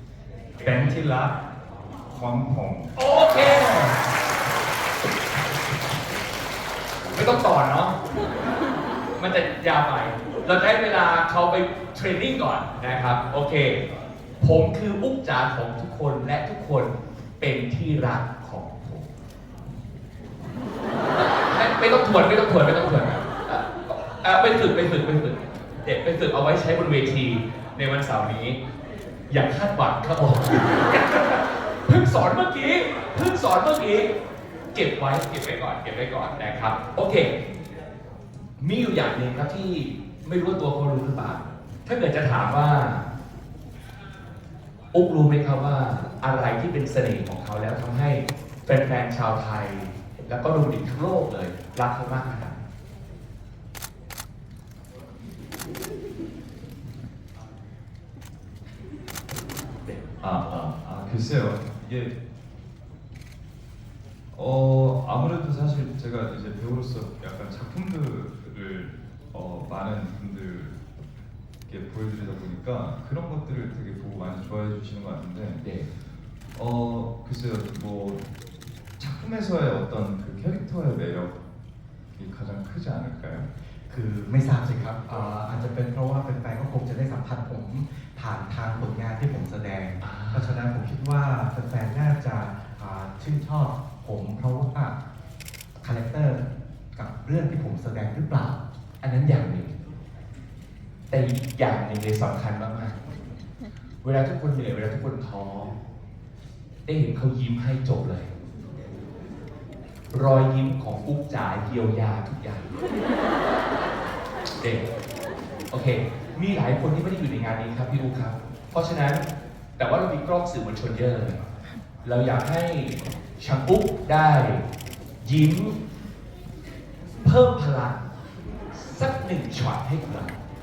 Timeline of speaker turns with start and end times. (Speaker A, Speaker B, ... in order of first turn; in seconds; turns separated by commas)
Speaker A: 0.6-1.4, Speaker A: 2.1-2.9, Speaker B: 3.0-4.0, Speaker B: 7.1-8.0, Speaker B: 9.2-13.8, Speaker B: 14.4-19.1, Speaker B: 21.2-28.6, Speaker B: 29.3-34.1, Speaker B: 34.7-37.4, Speaker B: 38.6-43.1, Speaker B: 44.9-52.6, Speaker A: 60.2-62.1, Speaker A: 64.3-70.8, Speaker A: 71.7-75.6, Speaker B: 75.6-75.9, Speaker A: 76.5-78.2, Speaker A: 79.0-81.4, Speaker A: 82.1-83.5, Speaker C: 83.9-95.0, Speaker B: 90.0-90.6, Speaker C: 95.8-98.6, Speaker B: 99.0-99.8, Speaker B: 101.1-103.0, Speaker B: 104.0-105.8, Speaker B: 106.8-108.3, Speaker B: 110.1-112.7, Speaker B: 114.6-114.9, Speaker B: 115.7-119.3, Speaker B: 119.8-121.4, Speaker B: 122.0-124.7, Speaker B: 125.2-125.8, Speaker B: 127.2-128.0, Speaker B: 128.7-130.4